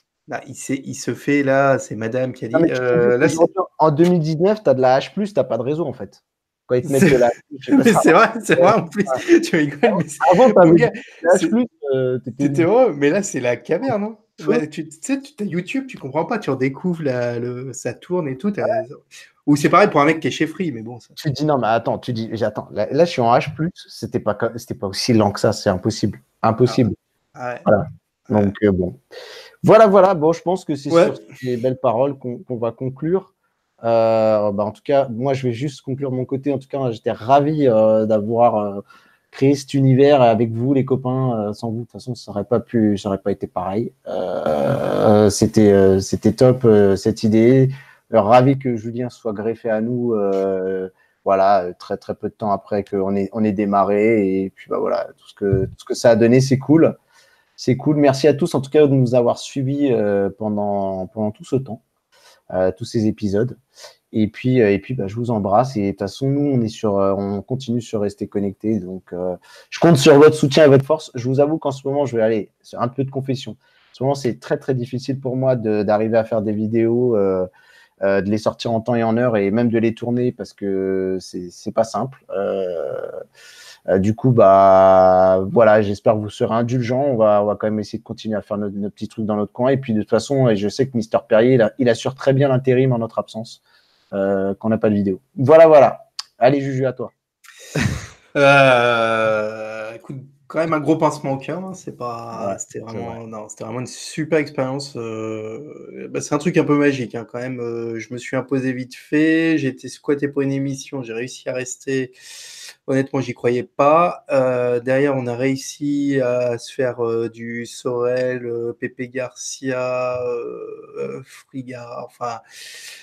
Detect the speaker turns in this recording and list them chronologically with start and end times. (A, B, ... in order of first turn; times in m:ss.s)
0:00.3-0:03.5 A
0:02.5-0:09.2 B
0:06.8-0:11.6 A
0:10.2-0:12.7 B
0:12.4-0:21.2 A
0:21.2-0:27.0 B
0:27.3-0:27.7 A
0:27.6-0:29.0 B
0:28.3-0:28.5 A
0:29.6-0:33.3 B
0:30.9-0:31.2 A
0:33.8-0:57.0 B
0:57.6-1:01.8 B
1:02.5-1:03.6 B
1:04.1-1:17.5 B
1:18.0-1:23.1 B
1:23.9-1:33.6 B
1:34.1-1:37.1 B
1:38.3-1:52.2 A
1:42.3-1:43.1 B
1:52.8-2:02.4 A